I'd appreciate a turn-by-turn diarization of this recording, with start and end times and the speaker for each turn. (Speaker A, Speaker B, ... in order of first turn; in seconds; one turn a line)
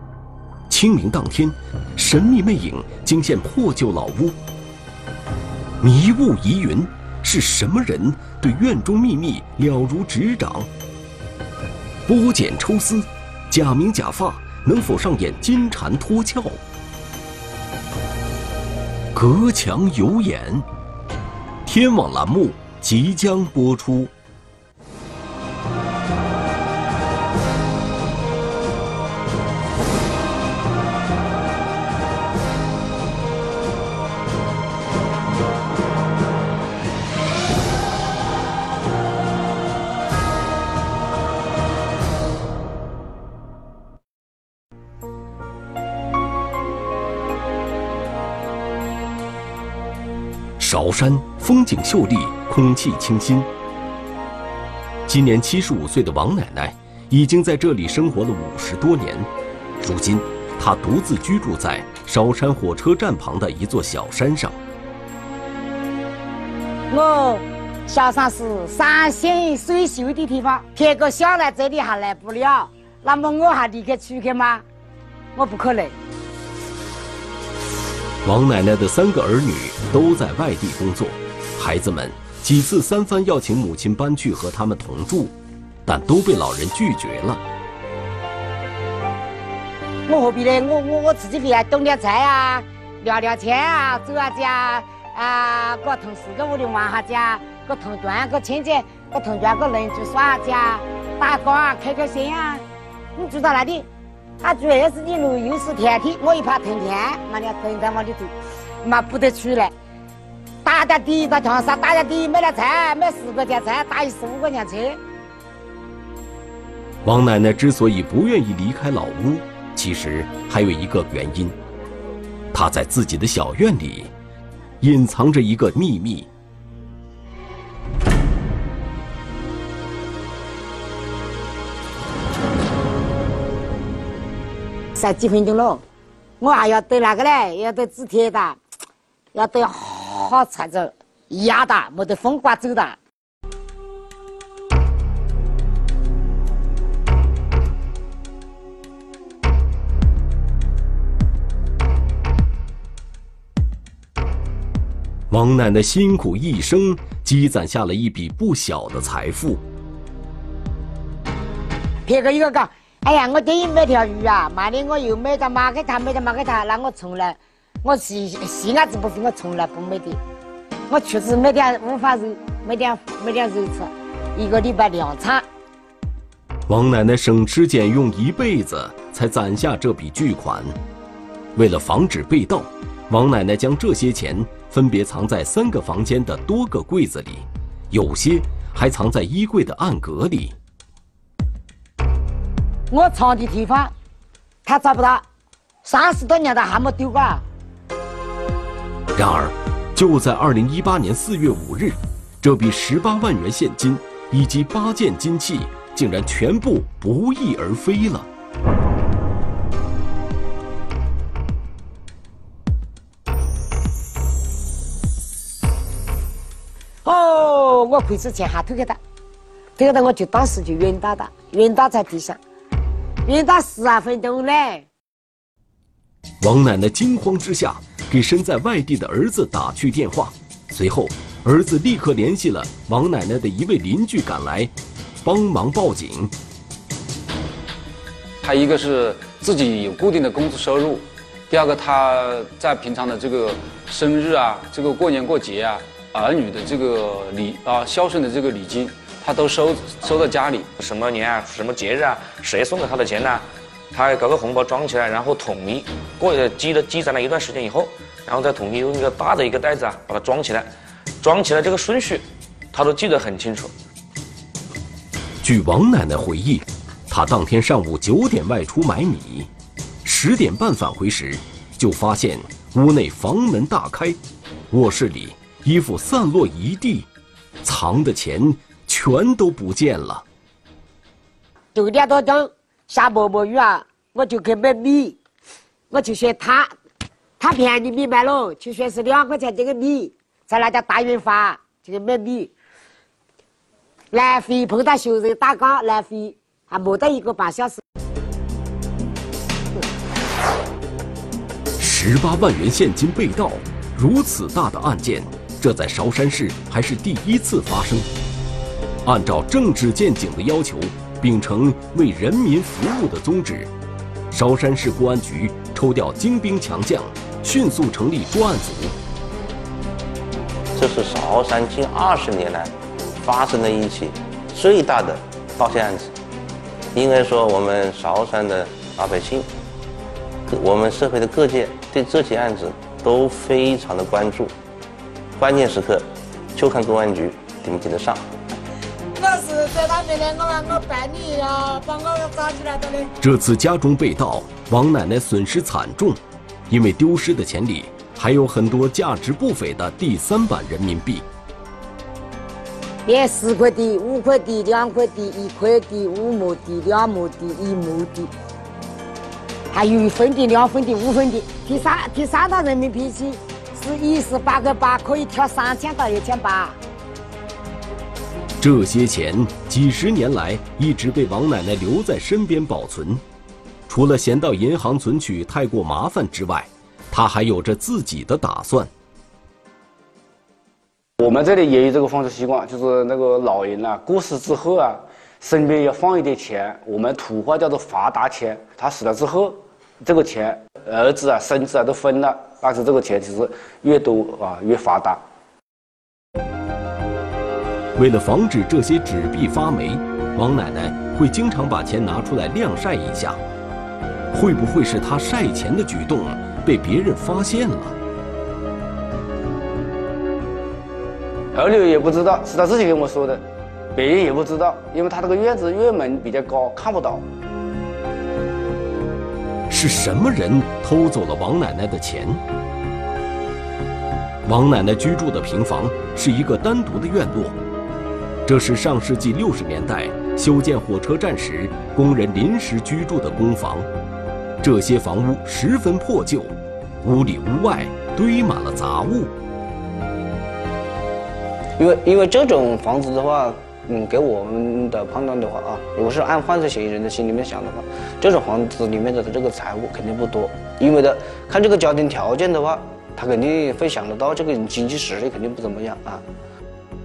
Speaker A: 0.7-4.3
Speaker A: 5.8-10.7
Speaker A: 12.1-16.6
Speaker A: 19.1-20.6
Speaker A: 21.6-24.1
Speaker A: 50.6-53.5
Speaker A: 55.1-59.3
Speaker A: 59.8-64.6
Speaker B: 66.9-74.6
Speaker B: 75.3-75.9
Speaker A: 78.2-85.3
Speaker A: 85.8-87.4
Speaker B: 90.1-103.9
Speaker B: 104.4-109.7
Speaker B: 110.6-115.0
Speaker A: 117.0-121.5
Speaker A: 122.5-124.1
Speaker A: 124.8-126.3
Speaker B: 134.9-135.8
Speaker B: 136.4-138.6
Speaker B: 139.3-143.0
Speaker A: 155.3-159.6
Speaker B: 162.1-170.2
Speaker B: 170.9-175.4
Speaker A: 176.7-180.8
Speaker A: 181.5-190.5
Speaker B: 192.9-193.9
Speaker B: 194.7-195.2
Speaker B: 195.8-197.4
Speaker A: 199.2-208.3
Speaker B: 217.0-219.0
Speaker B: 219.8-222.4
Speaker B: 223.2-224.9
Speaker A: 226.4-236.3
Speaker C: 238.4-250.7
Speaker D: 250.8-260.7
Speaker D: 261.2-263.7
Speaker A: 265.4-269.5
Speaker A: 270.0-274.2
Speaker A: 274.7-277.1
Speaker A: 277.6-280.2
Speaker B: 281.7-285.2
Speaker B: 285.9-286.7
Speaker B: 287.4-292.5
Speaker B: 294.1-297.8
Speaker A: 301.8-308.1
Speaker A: 309.0-313.7
Speaker A: 314.3-318.9
Speaker E: 320.8-326.1
Speaker E: 326.9-329.5
Speaker E: 330.5-334.5
Speaker E: 335.4-336.0
Speaker E: 336.6-338.2
Speaker B: 339.1-343.1
Speaker A: 343.2-351.2
Speaker B: 353.1-358.3
Speaker B: 359.7-366.8
Speaker A: 368.6-373.2
Speaker A: 373.9-378.9
Speaker F: 381.2-395.2
Speaker A: 397.9-403.4
Speaker A: 404.3-407.9
Speaker F: 411.5-413.4
Speaker F: 413.9-417.2
Speaker A: 419.7-422.4
Speaker A: 424.4-427.6
Speaker A: 428.4-433.9
Speaker A: 434.6-439.3
Speaker G: 441.8-456.2